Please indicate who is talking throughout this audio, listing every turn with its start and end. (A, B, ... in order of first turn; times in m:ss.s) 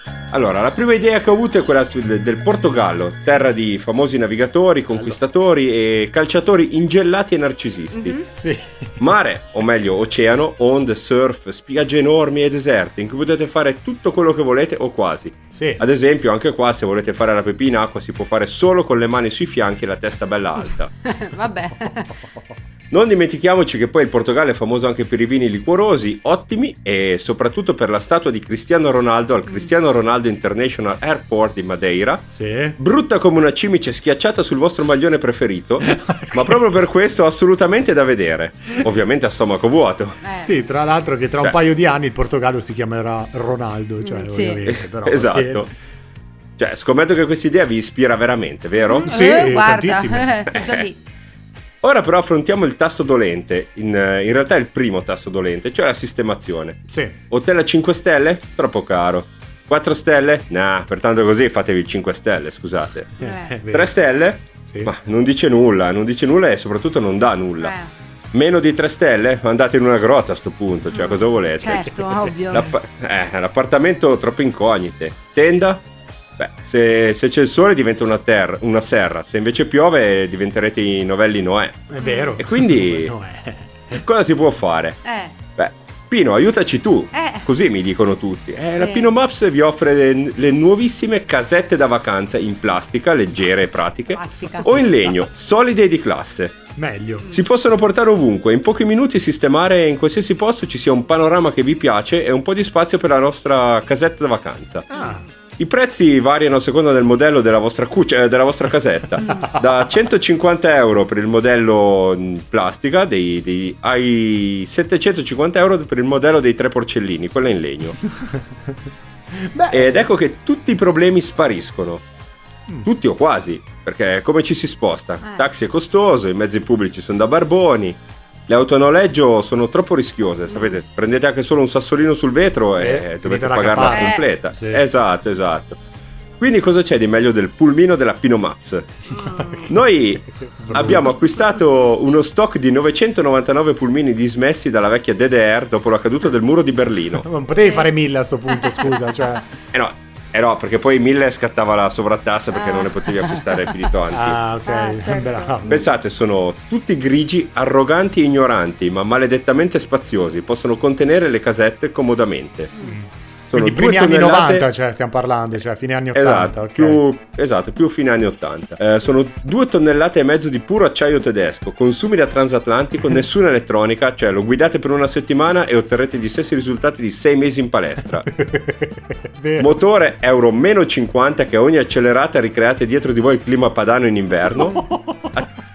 0:00.3-0:08.2 A
0:07.9-0:08.2 B
0:08.3-0:08.9 C
0:09.0-0:20.9 A
0:15.5-0:15.8 C
0:21.0-0:22.1 B
0:22.9-0:40.2 A
0:32.3-0:32.8 C
0:35.8-0:36.6 C
0:40.2-0:40.5 B
0:40.4-0:45.7 C
0:44.0-0:44.6 B
0:44.6-0:45.7 A
0:46.6-0:49.5 A
0:48.9-0:51.0 B
0:49.0-0:50.3 C
0:51.8-1:07.7 A
0:56.9-0:57.2 C
1:03.2-1:03.5 B
1:03.2-1:03.9 C
1:04.7-1:04.9 C
1:07.6-1:07.9 B
1:08.3-1:11.9 A
1:10.9-1:12.7 B
1:12.5-1:15.8 A
1:16.4-1:23.1 A
1:21.9-1:24.0 C
1:22.0-1:22.4 B
1:23.9-1:25.0 A
1:25.0-1:25.3 B
1:25.6-1:36.6 A
1:27.1-1:27.4 B
1:28.8-1:29.1 B
1:34.1-1:34.7 B
1:36.8-1:37.4 C
1:37.3-1:45.0 A
1:44.9-1:45.2 C
1:45.6-1:58.0 A
1:49.3-1:49.5 C
1:59.3-2:00.1 C
1:59.7-2:02.0 A
2:02.8-2:15.8 A
2:05.2-2:05.5 B
2:10.5-2:10.8 B
2:12.8-2:14.8 C
2:13.8-2:14.2 B
2:16.4-2:19.0 A
2:19.2-2:19.7 B
2:19.7-2:27.2 A
2:20.3-2:21.0 C
2:27.2-2:29.4 C
2:27.6-2:27.9 B
2:28.6-2:28.9 B
2:29.7-2:34.4 A
2:32.5-2:33.5 B
2:34.1-2:35.9 C
2:34.6-2:35.6 B
2:35.7-2:42.7 A
2:42.8-2:47.0 C
2:43.5-2:44.7 A
2:46.1-2:58.3 A
2:58.3-2:59.7 C
2:59.6-3:05.5 A
3:04.5-3:05.3 C